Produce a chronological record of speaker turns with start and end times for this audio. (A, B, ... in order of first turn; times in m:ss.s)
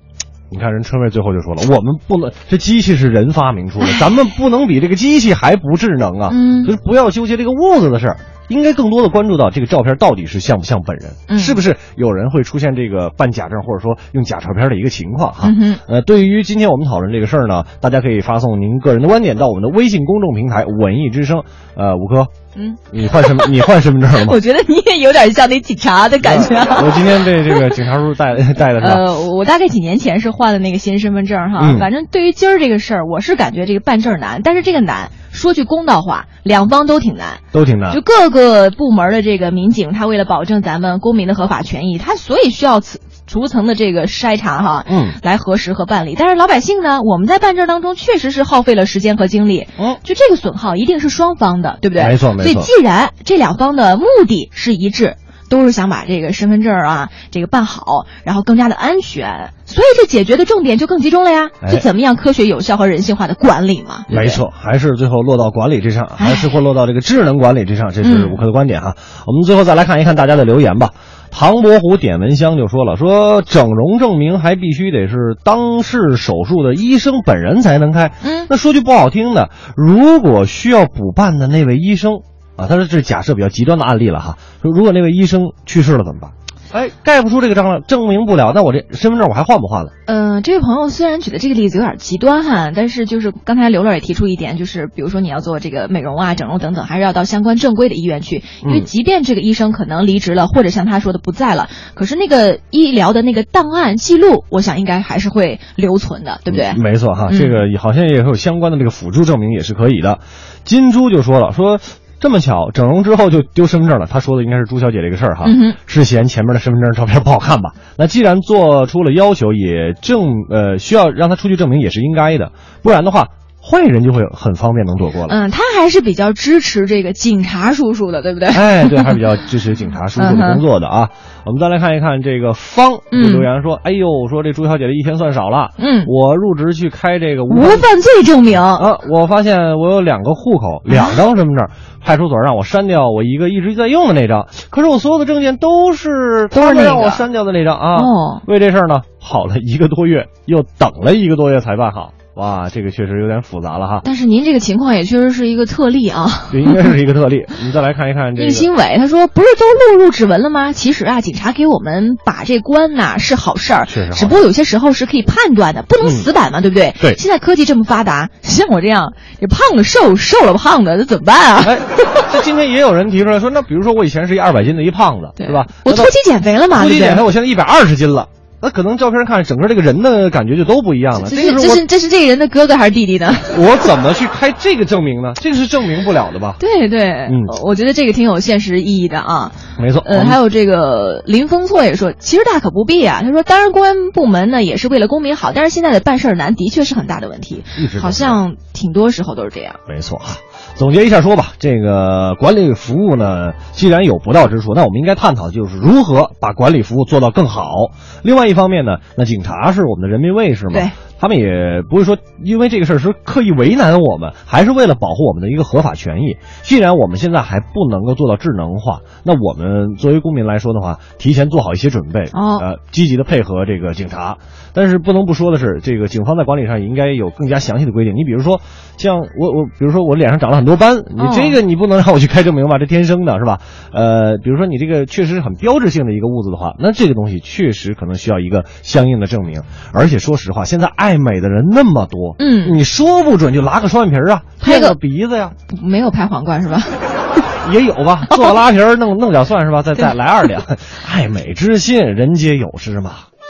0:00.5-0:22.3 A
0:06.3-0:06.7 B
0:11.3-0:11.6 B
0:15.4-0:15.8 B
0:22.6-0:27.8 B
0:22.9-0:24.4 A
0:26.2-0:29.1 A
0:28.8-1:04.4 B
0:31.6-0:31.9 A
0:37.5-0:38.0 A
0:44.9-0:45.2 A
0:52.0-0:52.7 A
1:04.1-1:29.9 A
1:06.2-1:06.5 B
1:08.0-1:08.4 B
1:18.2-1:18.5 B
1:30.1-1:47.6 B
1:38.6-1:38.9 A
1:46.5-2:05.4 A
1:55.4-1:55.8 B
2:05.3-2:09.2 B
2:08.5-2:17.9 A
2:10.2-2:10.6 B
2:13.1-2:13.5 B
2:15.8-2:16.1 B
2:17.5-2:18.9 B
2:18.8-2:34.0 A
2:20.9-2:21.2 B
2:26.5-2:27.2 B
2:28.0-2:28.4 B
2:34.0-2:36.9 B
2:36.5-2:38.7 A
2:38.4-2:52.3 B
2:43.9-2:44.4 A
2:46.0-2:46.3 A
2:51.6-2:56.1 A
2:55.4-2:57.2 B
2:56.7-3:01.8 A
3:01.2-3:03.6 B
3:03.5-3:06.6 A
3:06.6-3:19.8 B
3:07.3-3:07.5 A
3:09.8-3:10.4 A
3:17.8-3:18.4 A
3:19.9-4:05.6 A
3:42.3-3:42.7 B
3:51.2-3:51.6 B
4:02.4-4:02.8 B
4:04.6-4:05.0 B
4:05.7-4:07.3 B
4:07.6-4:13.3 A